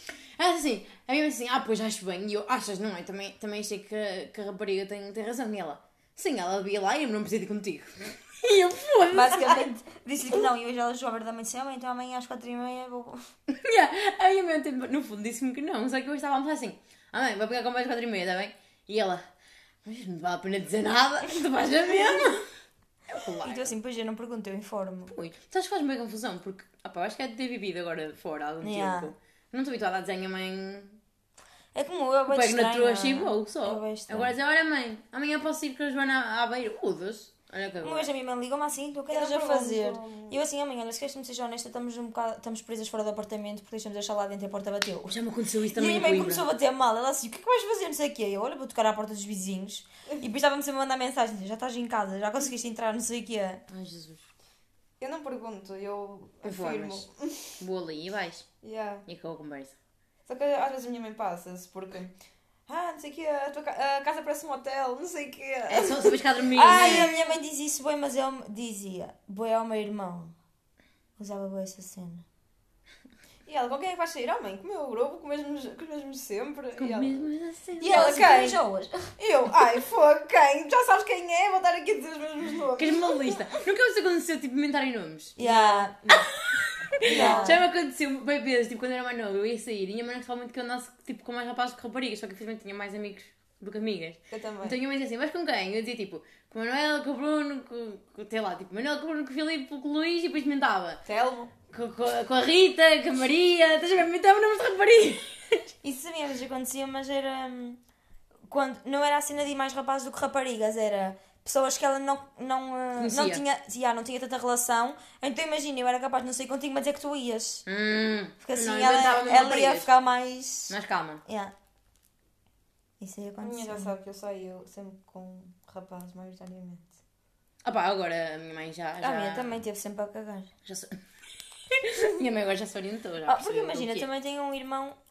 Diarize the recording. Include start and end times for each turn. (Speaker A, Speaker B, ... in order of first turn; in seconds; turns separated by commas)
Speaker A: 0.3-9.6, Speaker B: 9.1-13.3, Speaker A: 13.5-19.2, Speaker A: 19.8-22.5, Speaker A: 23.1-23.7, Speaker B: 23.4-25.1, Speaker A: 25.1-31.0, Speaker B: 28.6-29.1, Speaker B: 31.7-34.3, Speaker A: 32.3-38.1, Speaker B: 37.8-45.1, Speaker C: 39.1-40.4, Speaker A: 45.1-46.5, Speaker B: 45.7-53.6, Speaker A: 53.7-54.3, Speaker C: 55.0-57.5, Speaker A: 56.4-57.0, Speaker A: 57.6-58.5, Speaker C: 58.6-59.0, Speaker A: 59.1-59.8, Speaker C: 60.3-62.1, Speaker C: 62.7-67.4, Speaker A: 65.7-67.1, Speaker B: 66.5-70.3, Speaker B: 71.2-72.2, Speaker C: 73.5-77.2, Speaker A: 76.8-78.2, Speaker C: 77.8-78.6, Speaker B: 77.8-79.1, Speaker C: 79.2-83.5, Speaker A: 82.8-85.4, Speaker B: 85.4-86.3, Speaker C: 85.4-85.9, Speaker A: 86.3-101.0, Speaker C: 87.0-87.6, Speaker B: 87.0-87.6, Speaker C: 94.3-94.8, Speaker C: 101.0-101.5, Speaker A: 101.7-105.7, Speaker B: 105.8-107.8, Speaker B: 108.5-117.6, Speaker A: 113.0-113.4, Speaker A: 117.7-119.9, Speaker B: 118.4-121.5, Speaker A: 120.7-121.2, Speaker B: 123.0-123.9, Speaker C: 123.4-127.0, Speaker A: 127.6-129.6, Speaker B: 129.0-130.5, Speaker A: 130.6-131.0, Speaker A: 131.7-134.1, Speaker B: 133.2-134.9